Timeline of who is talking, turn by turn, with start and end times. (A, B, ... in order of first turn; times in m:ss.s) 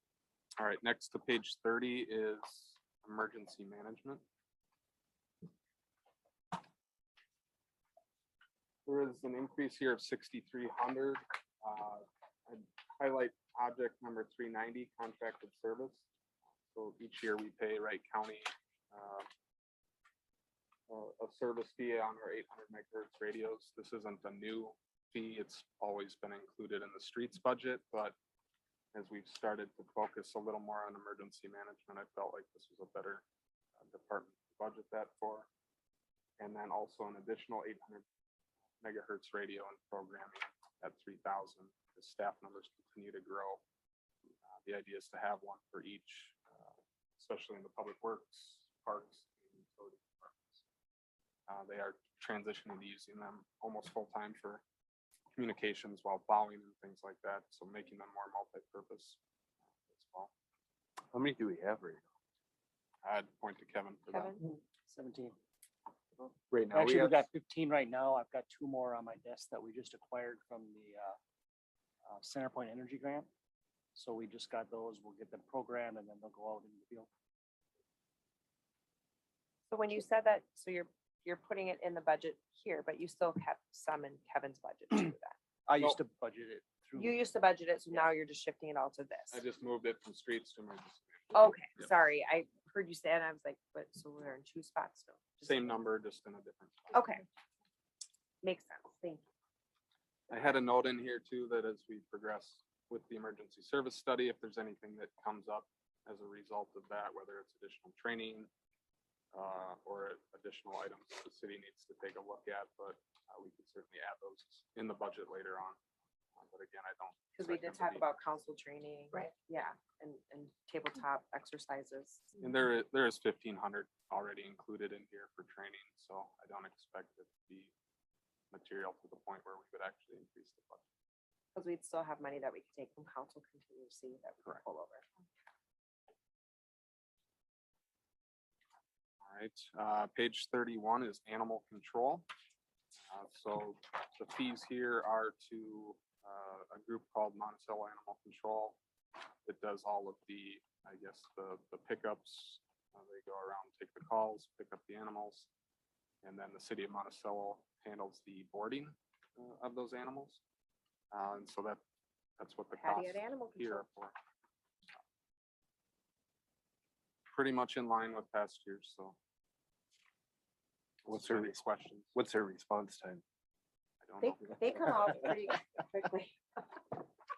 0:00.6-0:04.2 A
0:08.8-0:16.1 A
0:16.7-0:19.3 A
0:20.9-0:28.1 A
0:28.9-0:33.2 A
0:33.8-0:35.5 A
0:36.4-0:38.0 A
0:38.8-0:43.6 A
0:44.6-0:50.6 A
0:51.5-0:54.6 A
0:55.4-0:59.2 A
0:59.8-1:00.3 A
1:01.1-1:02.1 B
1:03.0-1:04.4 A
1:04.1-1:04.4 C
1:04.8-1:05.4 D
1:06.2-1:11.2 D
1:06.5-1:07.1 A
1:06.5-1:07.2 B
1:12.1-1:13.3 D
1:13.9-1:17.1 D
1:19.7-1:25.4 C
1:25.7-1:27.2 D
1:27.0-1:29.4 C
1:29.3-1:31.9 A
1:31.3-1:35.8 C
1:35.4-1:37.0 A
1:36.9-1:37.2 C
1:38.4-1:39.2 C
1:40.3-1:48.5 A
1:49.3-1:55.8 A
1:56.4-1:58.0 A
1:57.4-2:02.2 C
2:02.4-2:07.7 A
2:08.5-2:10.8 A
2:11.6-2:15.0 C
2:19.2-2:22.3 A
2:23.1-2:28.8 A
2:29.4-2:35.5 A
2:36.2-2:40.4 A
2:41.1-2:41.8 A
2:42.4-2:44.1 A
2:42.7-2:43.9 C
2:47.3-2:49.2 A
2:51.0-2:52.1 A
2:51.1-2:51.6 B
2:52.1-2:53.2 B
2:54.0-2:54.5 A
2:54.2-2:56.4 C